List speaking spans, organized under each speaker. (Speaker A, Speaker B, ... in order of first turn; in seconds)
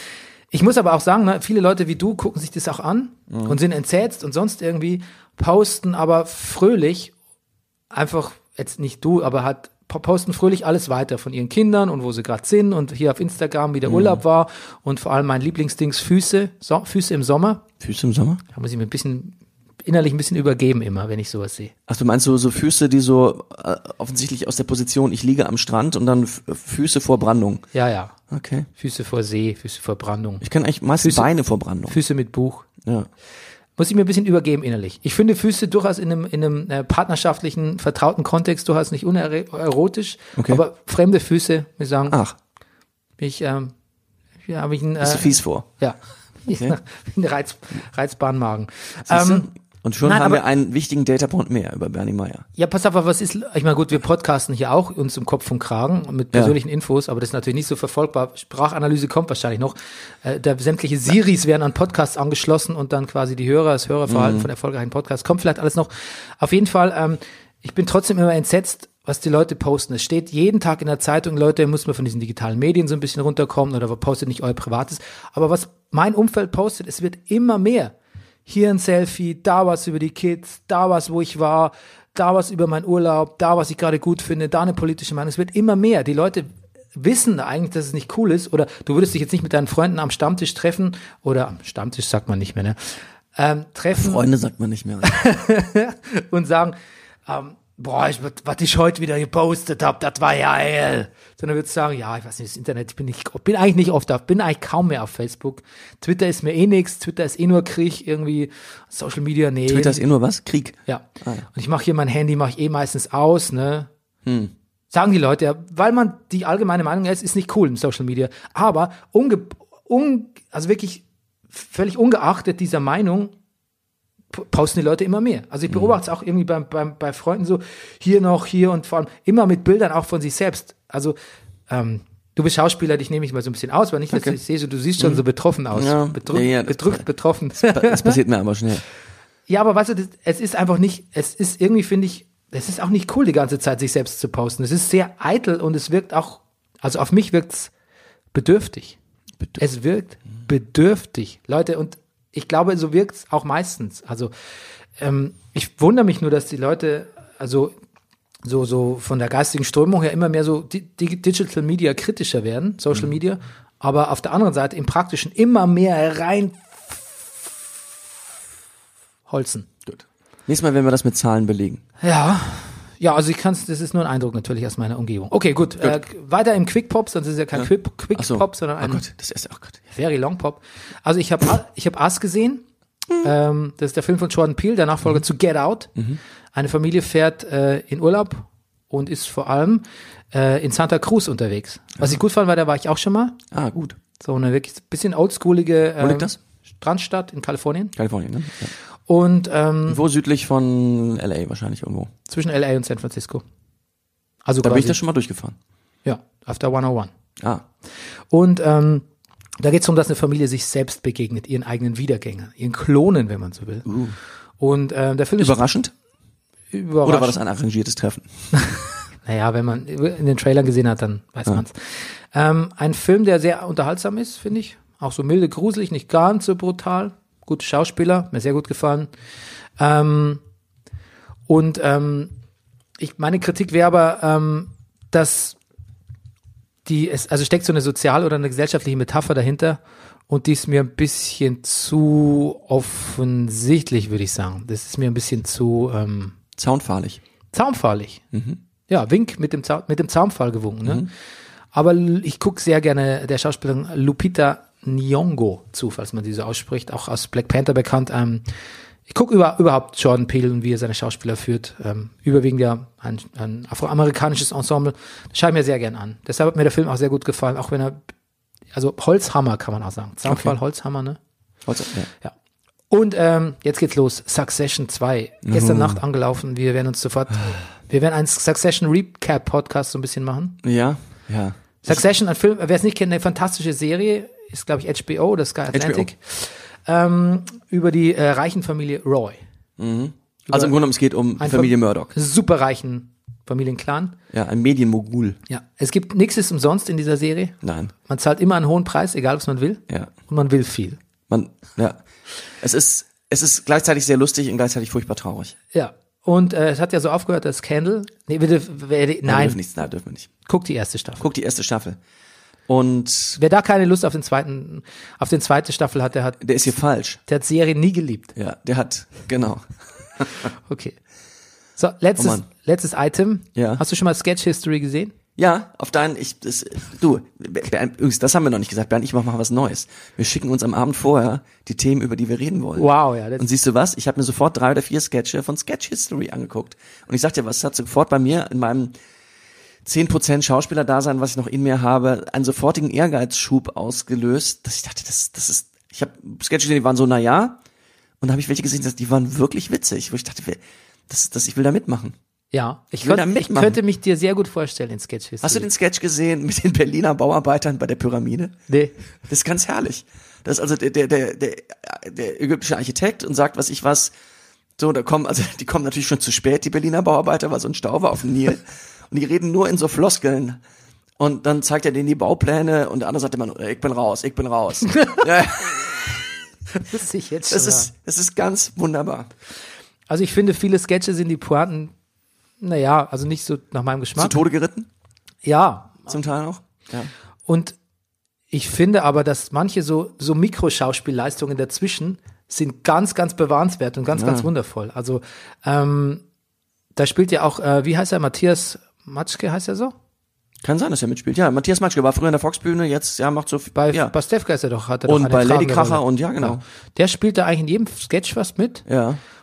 Speaker A: 0.5-7.1, 7.9-17.6, 18.5-21.7, 27.7-28.1, 28.8-30.4, 31.0-31.3, 31.9-32.6, 33.8-42.2, 43.2-43.7, 44.4-49.5, 50.0-50.4, 52.5-77.9, 78.5-94.2, 95.0-96.7, 97.2-110.0, 110.9-113.9, 114.9-123.3, 124.3-131.1, 131.7-138.2, 139.5-147.7, 148.3-149.0, 149.6-154.3, 155.0-157.7, 158.4-167.3, 169.3-169.7, 172.0-179.0, 179.9-182.6, 183.2-185.9, 186.5-193.4, 194.2-197.9, 199.1-200.0, 202.3-203.4, 204.4-205.0, 206.0-207.1, 208.3-209.0, 209.6-213.9, 214.6-215.6, 216.7-217.4, 219.2-229.1, 229.8-230.4, 231.5-232.3, 233.0-235.6, 236.8-246.3, 247.5-248.2, 248.9-251.1, 251.7-258.4, 259.1-268.0, 268.7-271.2, 272.9-280.6, 281.8-289.4, 290.5-290.8, 291.4-294.1, 295.5-301.0, 305.7-309.6, 310.4-311.2, 313.4-316.4, 317.3-318.3, 320.4-321.0, 321.8-325.1, 332.8-333.5, 352.5-355.7, 358.7-358.9, 374.9-375.2, 376.8-377.9, 380.1-381.9, 382.6-384.4, 385.4-386.1, 387.5-387.8, 388.5-396.2, 396.9-399.9, 403.7-408.9
Speaker B: 3.3-3.6, 13.8-14.2, 17.8-18.4, 21.9-27.6, 28.3-28.7, 30.4-32.0, 40.4-40.6, 42.1-42.4, 45.0-45.6, 49.1-52.4, 64.1-64.5, 93.9-95.1, 109.7-111.5, 114.2-114.5, 134.1-134.4, 135.0-137.0, 137.6-138.8, 169.8-171.8, 177.5-179.8, 193.5-194.0, 196.0-196.4, 197.9-198.7, 199.9-202.1, 204.6-205.6, 207.4-207.6, 213.8-214.2, 215.4-215.9, 217.0-218.3, 246.6-247.2, 248.3-248.6, 270.3-270.5, 271.6-272.1, 275.4-276.0, 280.6-282.0, 285.7-286.1, 289.8-292.1, 294.3-295.4, 297.6-297.9, 301.3-302.0, 302.6-305.6, 309.2-310.3, 311.2-312.0, 312.7-313.4, 316.4-317.2, 318.3-320.5, 322.2-322.4, 323.6-323.8, 325.4-338.9, 339.8-347.6, 348.2-352.1, 353.0-353.8, 355.4-358.5, 359.3-364.1, 364.8-370.6, 371.2-376.3, 377.5-379.3, 384.2-384.9, 386.1-387.1, 394.1-394.5, 400.6-404.1, 405.1-406.6, 408.9-409.2